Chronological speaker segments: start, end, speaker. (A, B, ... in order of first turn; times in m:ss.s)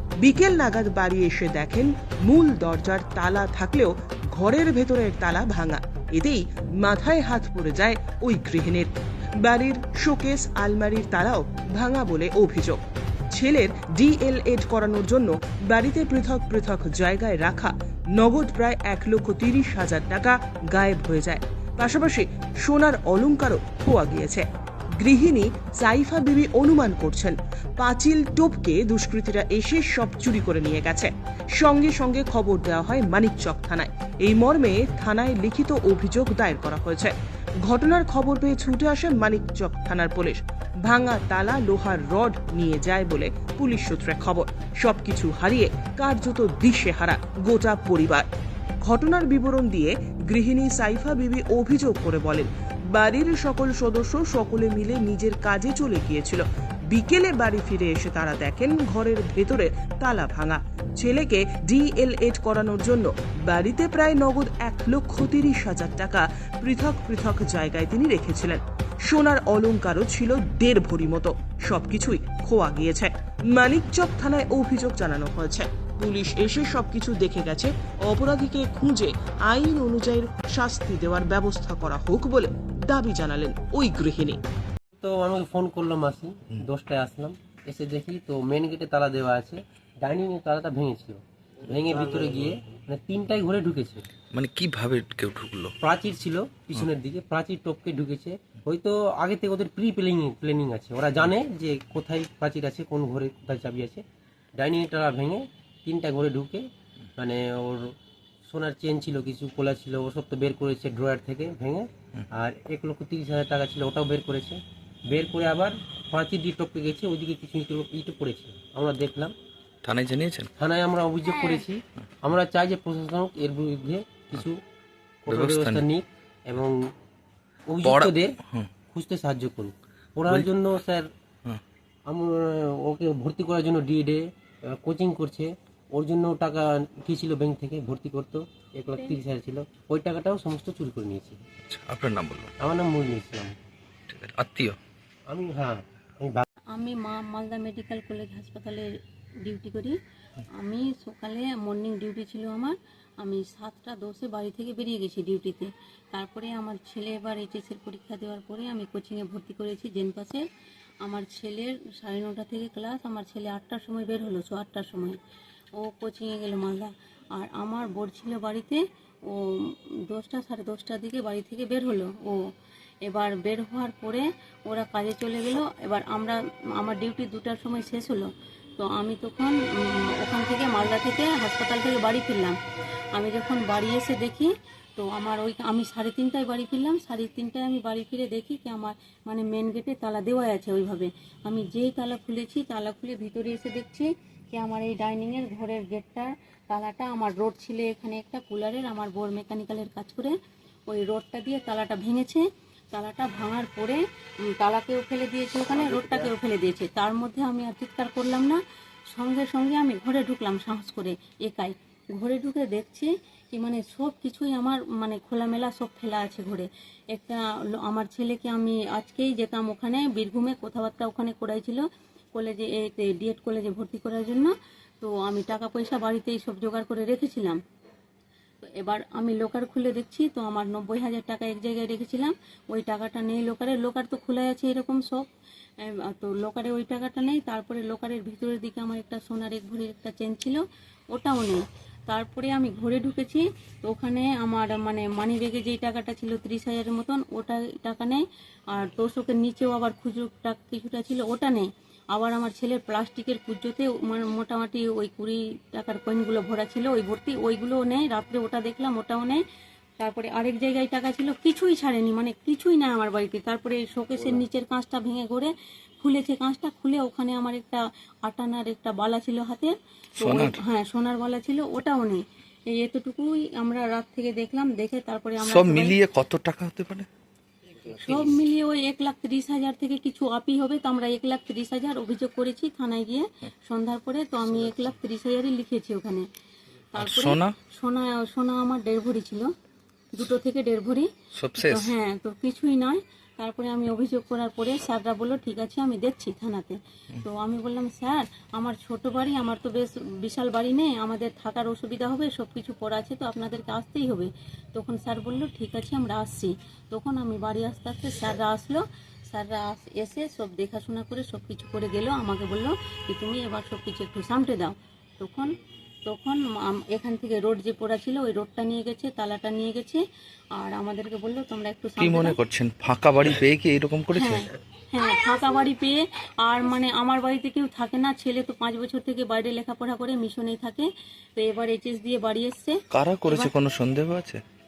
0:00.2-0:08.9 A
0:09.4-0:24.4 A
0:25.0-0:37.1 A
0:37.6-0:48.3 A
0:48.8-1:24.4 A
1:25.0-1:34.0 B
1:34.3-1:35.7 C
1:35.8-1:44.0 B
1:44.6-1:46.6 B
1:47.2-1:47.9 B
1:48.4-1:59.3 B
1:59.8-2:00.5 C
2:00.6-2:04.6 B
2:05.2-2:06.9 B
2:05.3-2:05.8 C
2:07.7-2:08.4 B
2:07.8-2:08.7 C
2:08.9-2:11.1 B
2:12.0-2:21.4 B
2:21.6-2:22.5 C
2:22.6-2:23.6 B
2:24.1-2:24.8 C
2:25.3-2:26.4 B
2:26.8-2:28.8 D
2:29.5-2:29.9 D
2:30.9-2:32.6 D
2:33.4-2:35.6 D
2:36.1-2:40.4 D
2:41.1-2:45.0 D
2:45.9-2:46.5 D
2:47.5-2:48.6 D
2:50.1-2:51.9 D
2:53.5-2:54.0 D
2:54.8-2:55.5 D
2:56.9-2:58.1 D
2:58.8-2:59.5 D
3:00.3-3:02.3 D
3:03.2-3:04.4 D
3:05.2-3:08.8 D
3:09.4-3:10.9 D
3:11.6-3:14.0 D
3:14.5-3:20.2 D
3:20.9-3:22.2 D
3:22.9-3:23.9 D
3:24.6-3:25.6 D
3:25.7-3:26.3 B
3:26.2-3:28.4 D
3:29.2-3:30.8 D
3:32.2-3:32.9 D
3:33.6-3:36.4 D
3:37.9-3:41.7 D
3:42.4-3:44.4 D
3:45.0-3:47.5 D
3:48.8-3:52.2 D
3:52.7-3:55.1 D
3:56.2-4:00.5 D
4:01.1-4:01.5 D
4:02.1-4:03.3 D
4:04.0-4:08.0 D
4:09.0-4:11.6 D
4:12.3-4:19.2 D
4:20.1-4:25.5 D
4:26.2-4:27.7 D
4:28.4-4:29.7 D
4:30.2-4:30.6 C
4:30.8-4:32.0 D
4:32.8-4:35.8 D
4:35.4-4:37.1 C
4:38.0-4:43.1 D
4:43.7-4:46.1 D
4:46.9-4:47.6 C
4:47.8-4:49.4 D
4:50.4-4:51.0 D
4:51.3-4:52.0 C
4:52.0-4:56.7 D
4:57.3-5:04.3 D
5:04.8-5:06.4 D
5:07.0-5:08.7 D
5:09.5-5:12.4 D
5:13.3-5:14.6 D
5:16.1-5:19.8 D
5:20.7-5:22.0 D
5:22.0-5:24.5 C
5:25.0-5:25.9 D
5:26.5-5:30.8 D
5:31.4-5:32.8 D
5:32.9-5:34.4 C